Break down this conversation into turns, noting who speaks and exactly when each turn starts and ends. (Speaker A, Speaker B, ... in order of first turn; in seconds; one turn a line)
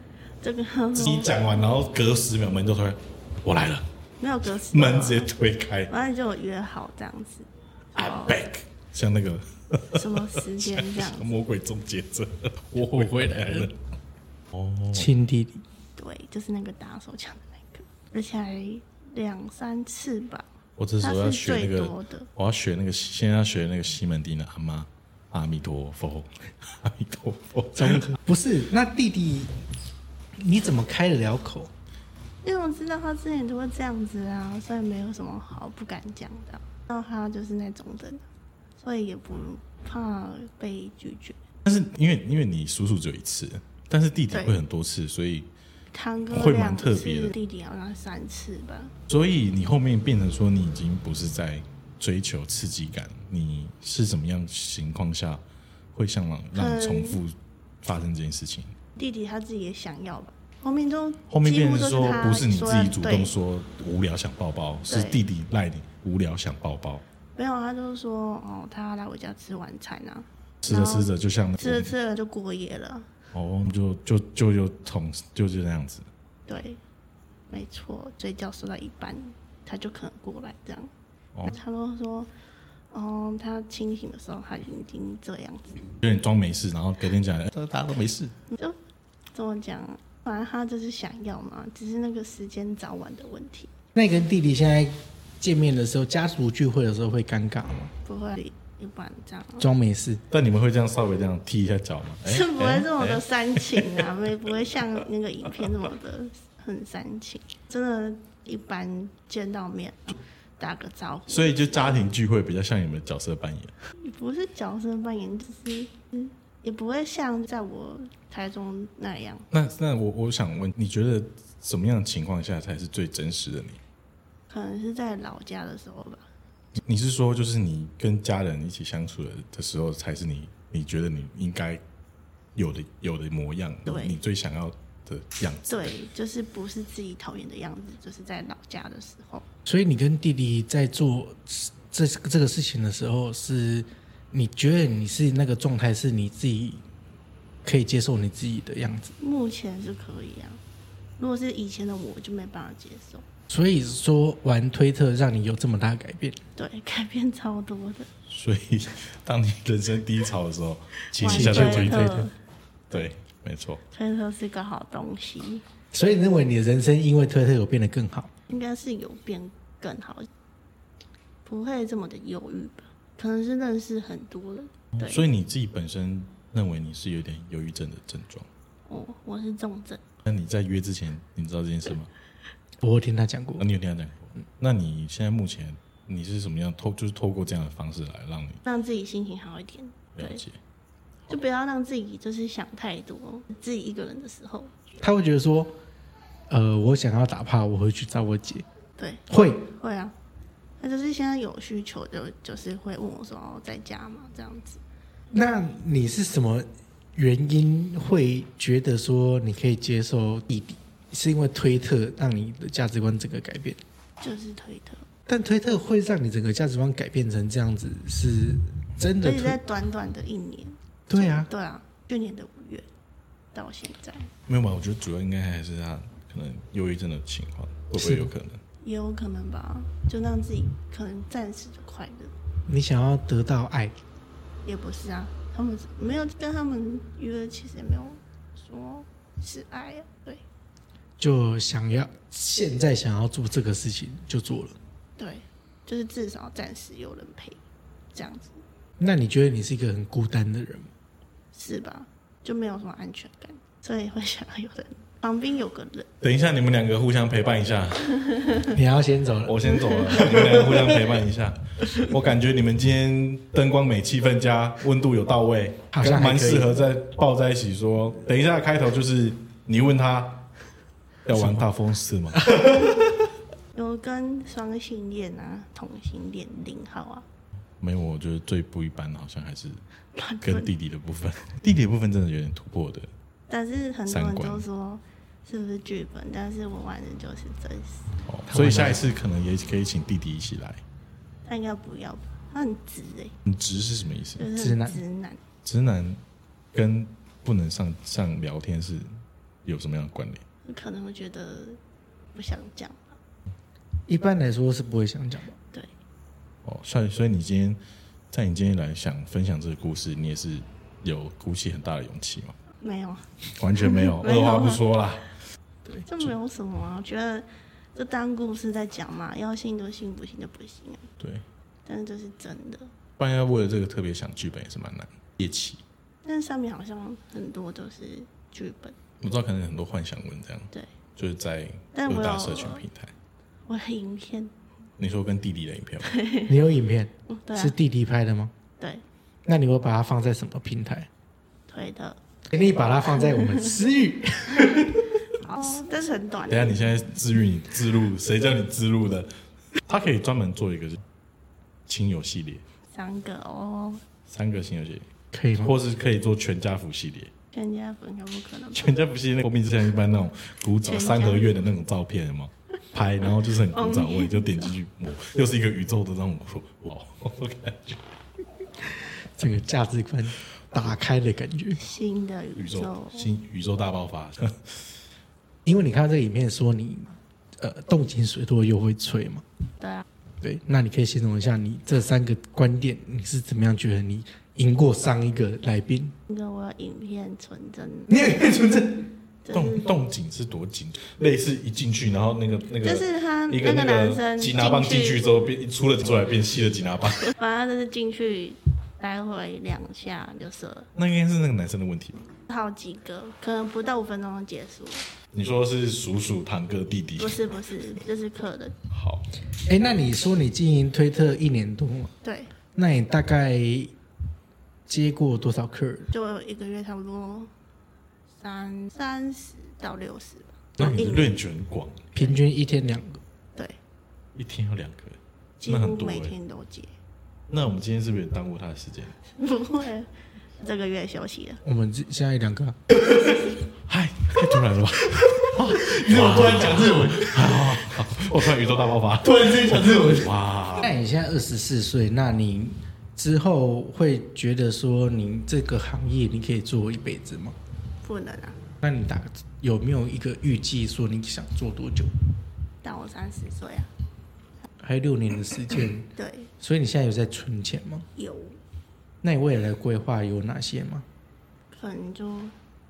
Speaker A: 0.4-1.4
Speaker B: 0.9-3.9
Speaker A: 4.2-5.3
Speaker B: 4.7-5.9
Speaker A: 5.9-8.4
Speaker B: 8.0-13.7
Speaker A: 9.9-11.3
Speaker C: 12.7-13.7
Speaker B: 14.5-15.1
Speaker C: 14.9-15.6
Speaker A: 15.9-20.5
Speaker B: 20.8-28.1
Speaker A: 21.0-22.3
Speaker C: 27.8-29.5
Speaker C: 30.4-31.7
Speaker A: 32.4-38.2
Speaker A: 38.8-41.4
Speaker B: 41.6-45.5
Speaker A: 44.3-44.6
Speaker A: 45.9-48.9
Speaker B: 46.3-47.3
Speaker B: 49.1-55.4
Speaker B: 55.9-58.7
Speaker A: 56.5-57.2
Speaker A: 59.0-63.3
Speaker B: 61.3-67.0
Speaker A: 64.9-65.2
Speaker A: 67.3-73.1
Speaker B: 70.6-71.9
Speaker B: 73.3-76.0
Speaker A: 76.5-76.8
Speaker A: 77.5-80.9
Speaker A: 81.5-82.3
Speaker A: 82.9-85.9
Speaker B: 86.0-88.3
Speaker A: 89.3-93.7
Speaker C: 93.9-97.9
Speaker A: 98.0-99.7
Speaker C: 99.6-100.2
Speaker B: 100.3-104.0
Speaker A: 102.2-112.1
Speaker B: 111.3-113.7
Speaker A: 114.0-119.5
Speaker B: 119.5-123.8
Speaker A: 124.5-126.2
Speaker B: 126.8-131.8
Speaker B: 132.5-135.9
Speaker A: 133.9-134.2
Speaker A: 135.7-139.4
Speaker C: 139.7-146.8
Speaker C: 147.6-149.1
Speaker A: 149.2-150.6
Speaker A: 151.2-153.2
Speaker C: 153.5-156.4
Speaker A: 156.6-158.1
Speaker B: 158.3-162.2
Speaker A: 161.2-162.3
Speaker C: 161.2-162.3
Speaker B: 162.9-163.8
Speaker A: 163.9-165.6
Speaker C: 165.9-168.3
Speaker A: 168.5-170.3
Speaker A: 171.4-175.2
Speaker B: 174.9-178.5
Speaker A: 178.9-180.0
Speaker B: 180.2-182.1
Speaker C: 182.8-183.7
Speaker B: 183.6-188.6
Speaker A: 188.6-190.4
Speaker B: 190.2-190.6
Speaker A: 191.3-194.7
Speaker C: 195.0-195.7
Speaker C: 196.5-198.6
Speaker A: 199.0-199.2
Speaker C: 199.3-199.7
Speaker A: 199.8-200.1
Speaker A: 200.8-204.8
Speaker C: 205.3-213.8
Speaker A: 214.2-215.0
Speaker C: 215.3-219.6
Speaker A: 219.2-222.8
Speaker C: 221.1-221.5
Speaker A: 223.5-224.3
Speaker B: 224.5-228.6
Speaker C: 227.9-228.3
Speaker A: 228.8-232.3
Speaker C: 232.7-233.9
Speaker A: 234.6-240.4
Speaker C: 241.2-244.8
Speaker A: 245.2-247.6
Speaker A: 248.1-248.6
Speaker C: 249.0-250.9
Speaker A: 251.5-256.1
Speaker B: 256.2-258.3
Speaker C: 258.7-261.0
Speaker B: 259.4-270.4
Speaker C: 265.9-266.7
Speaker B: 271.2-272.4
Speaker C: 272.4-272.9
Speaker A: 273.7-277.2
Speaker B: 277.8-279.8
Speaker A: 280.1-280.7
Speaker B: 280.4-283.1
Speaker A: 283.5-288.1
Speaker B: 284.1-284.7
Speaker B: 288.2-290.8
Speaker C: 288.5-289.0
Speaker A: 291.4-293.3
Speaker B: 293.5-294.5
Speaker A: 294.4-295.4
Speaker C: 294.5-295.0
Speaker B: 295.6-296.2
Speaker B: 296.7-299.1
Speaker B: 299.6-300.4
Speaker A: 300.6-301.8
Speaker A: 302.3-303.2
Speaker C: 304.1-305.6
Speaker B: 306.6-307.8
Speaker B: 308.3-312.5
Speaker A: 312.8-313.3
Speaker B: 313.6-315.3
Speaker A: 313.8-314.8
Speaker A: 315.9-321.1
Speaker A: 321.9-322.9
Speaker B: 323.2-325.8
Speaker A: 326.2-328.9
Speaker B: 329.2-333.1
Speaker A: 331.9-332.8
Speaker A: 333.7-334.5
Speaker B: 335.0-336.1
Speaker A: 336.1-336.5
Speaker C: 336.5-338.5
Speaker A: 337.3-337.8
Speaker A: 338.8-339.0
Speaker C: 339.4-341.1
Speaker A: 341.7-342.2
Speaker C: 342.5-345.2
Speaker A: 345.3-346.8
Speaker B: 346.5-349.3
Speaker B: 349.9-351.0
Speaker B: 351.9-352.6
Speaker A: 352.9-354.0
Speaker B: 354.3-355.1
Speaker C: 355.3-355.7
Speaker B: 355.6-357.3
Speaker A: 357.5-359.1
Speaker B: 358.7-368.0
Speaker A: 360.8-361.6
Speaker A: 363.7-364.7
Speaker C: 369.4-371.8
Speaker A: 371.8-373.3
Speaker B: 372.6-374.6
Speaker C: 375.6-379.4
Speaker A: 379.8-380.0
Speaker C: 380.4-386.1
Speaker A: 386.3-388.5
Speaker C: 388.1-389.1
Speaker A: 389.4-389.9
Speaker B: 389.5-397.3
Speaker A: 392.8-395.2
Speaker A: 397.3-400.9
Speaker B: 400.9-402.3
Speaker A: 402.5-405.1
Speaker B: 405.3-407.4
Speaker A: 407.2-408.7
Speaker B: 408.9-409.2
Speaker C: 409.6-412.1
Speaker A: 412.2-412.5
Speaker C: 412.7-413.9
Speaker C: 414.9-416.1
Speaker A: 416.1-417.5
Speaker A: 418.4-421.4
Speaker B: 420.8-422.1
Speaker C: 420.8-421.3
Speaker C: 422.1-423.2
Speaker B: 424.4-426.4
Speaker A: 425.6-426.9
Speaker B: 427.5-429.2
Speaker A: 429.3-431.6
Speaker C: 431.6-432.8
Speaker B: 433.9-440.9
Speaker C: 435.8-437.6
Speaker C: 439.2-447.5
Speaker A: 448.0-448.6
Speaker C: 448.8-452.1
Speaker A: 452.8-453.9
Speaker C: 454.8-458.1
Speaker A: 456.1-456.5
Speaker A: 458.1-458.6
Speaker C: 459.2-461.0
Speaker A: 461.7-462.5